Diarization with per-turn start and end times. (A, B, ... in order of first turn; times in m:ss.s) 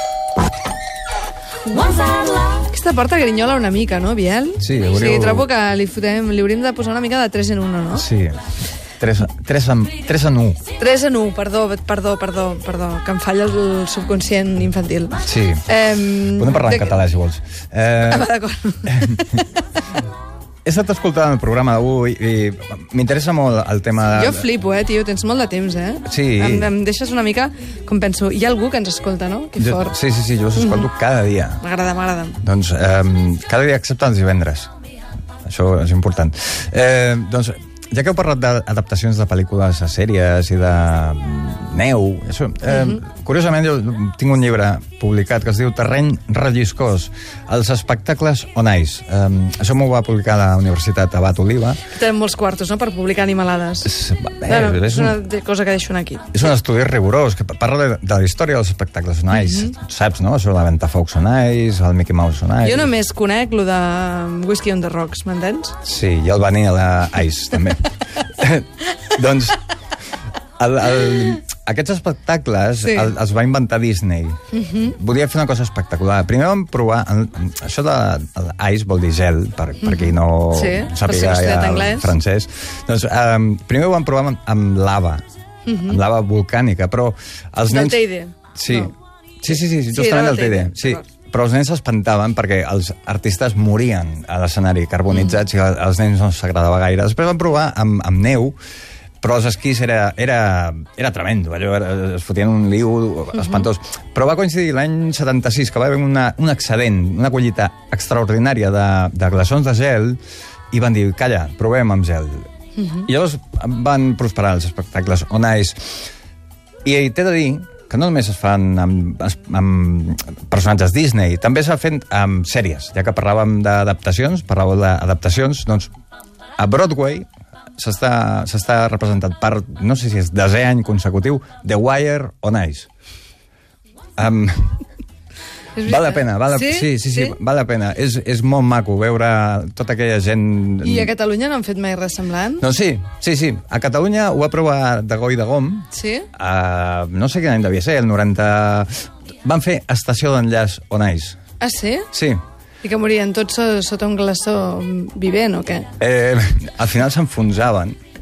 0:02.6-0:08.1 A
0:04.6-0:05.5 B
0:07.9-0:08.4 B
0:09.0-0:10.6 B
0:10.8-0:17.0 A
0:15.2-0:15.6 B
0:16.3-0:18.3 B
0:18.0-0:19.5 A
0:18.9-0:19.2 B
0:20.6-0:24.5 B
0:24.1-0:30.0 A
0:26.1-0:26.7 B
0:29.6-0:31.6 B
0:30.5-0:30.9 A
0:31.6-0:32.4 A
0:32.4-0:34.7 B
0:35.5-0:51.8 B
0:51.9-0:53.9 A
0:53.8-0:55.2 B
0:54.5-0:56.4 A
0:56.3-1:02.9 B
0:59.3-0:59.7 A
1:02.6-1:05.8 A
1:05.8-1:09.6 B
1:10.6-1:25.2 B
1:12.8-1:13.1 A
1:14.5-1:14.9 A
1:19.8-1:22.2 A
1:25.6-1:26.0 A
1:25.8-1:28.0 B
1:27.7-1:28.9 A
1:28.6-1:38.6 B
1:29.5-1:31.1 A
1:35.1-1:35.4 A
1:39.2-1:50.2 B
1:50.7-1:52.5 B
1:52.8-1:53.1 A
1:53.0-1:56.0 B
1:56.8-2:05.9 B
2:06.6-2:12.9 B
2:14.2-2:14.8 B
2:15.8-2:17.4 A
2:15.9-2:21.1 B
2:20.8-2:22.6 A
2:22.6-2:31.4 B
2:25.9-2:26.3 A
2:31.6-2:32.1 A
2:32.1-2:32.4 B
2:32.8-2:35.9 A
2:36.0-2:38.0 B